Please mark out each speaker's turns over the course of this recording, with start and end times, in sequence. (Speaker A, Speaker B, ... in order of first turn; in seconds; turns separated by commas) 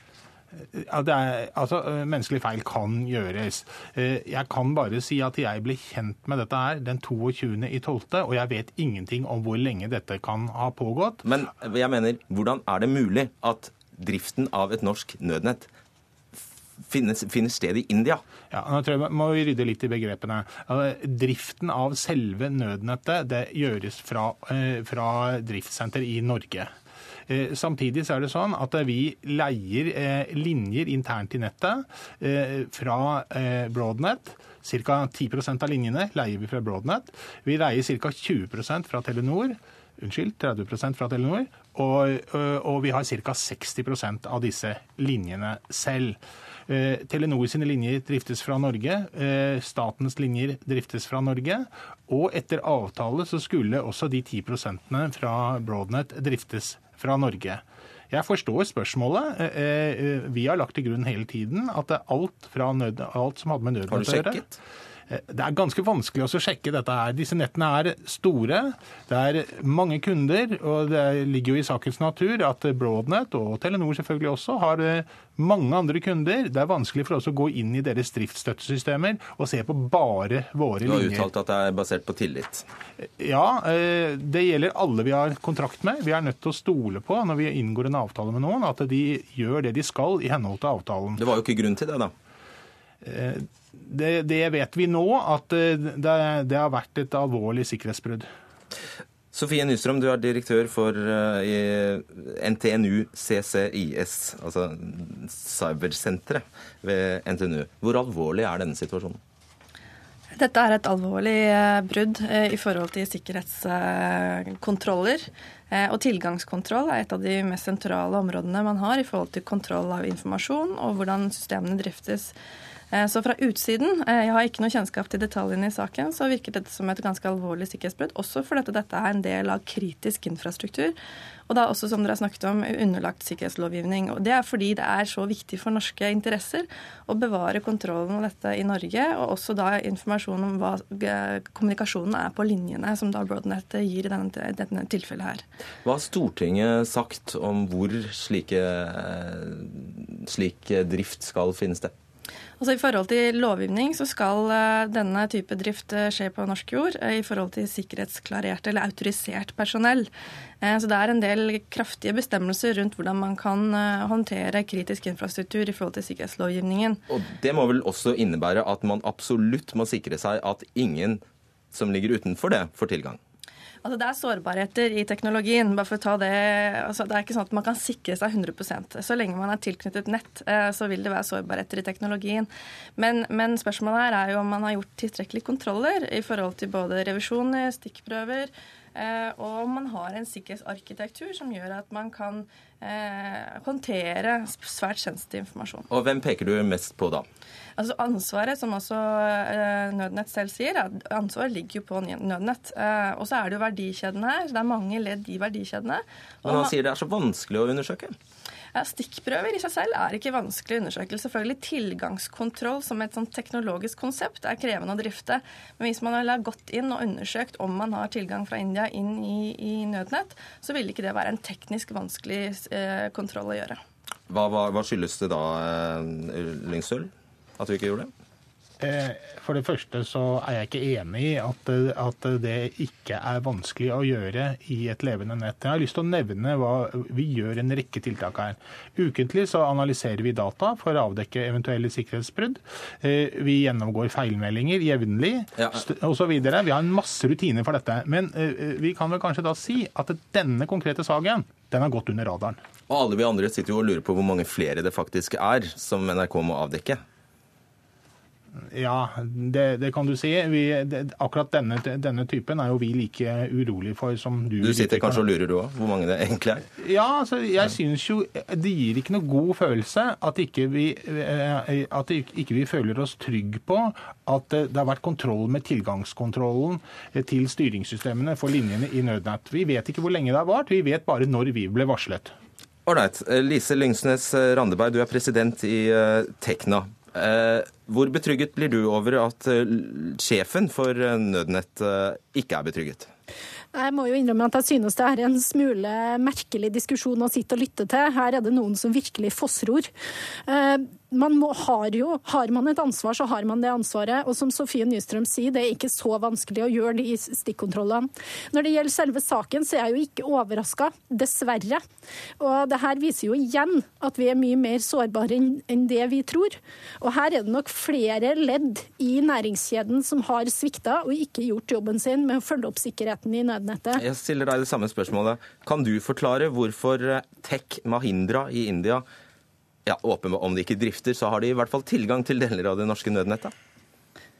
Speaker A: 0.7-11.2, Speaker B: 11.2-15.7, Speaker B: 16.9-18.2, Speaker A: 18.5-26.7, Speaker A: 27.3-64.4, Speaker B: 63.9-64.6, Speaker A: 65.1-81.3, Speaker B: 80.8-82.7, Speaker A: 83.0-91.2, Speaker B: 91.2-92.1, Speaker A: 93.0-98.3, Speaker B: 99.3-109.2, Speaker C: 110.3-122.3, Speaker C: 122.9-131.0, Speaker C: 131.5-145.4, Speaker B: 145.8-151.9, Speaker C: 152.6-160.1, Speaker C: 160.6-167.0, Speaker B: 167.1-173.2, Speaker C: 173.8-195.9, Speaker B: 195.9-197.2, Speaker C: 197.8-206.7, Speaker B: 206.4-208.1, Speaker C: 208.7-223.8, Speaker B: 224.3-228.1, Speaker A: 228.8-252.6, Speaker B: 252.9-257.0, Speaker A: 258.6-265.2, Speaker B: 264.6-266.6, Speaker A: 266.8-282.3, Speaker B: 282.9-293.1, Speaker D: 293.7-299.9, Speaker D: 300.5-311.8, Speaker D: 312.4-324.0, Speaker B: 324.0-329.0, Speaker B: 329.9-333.5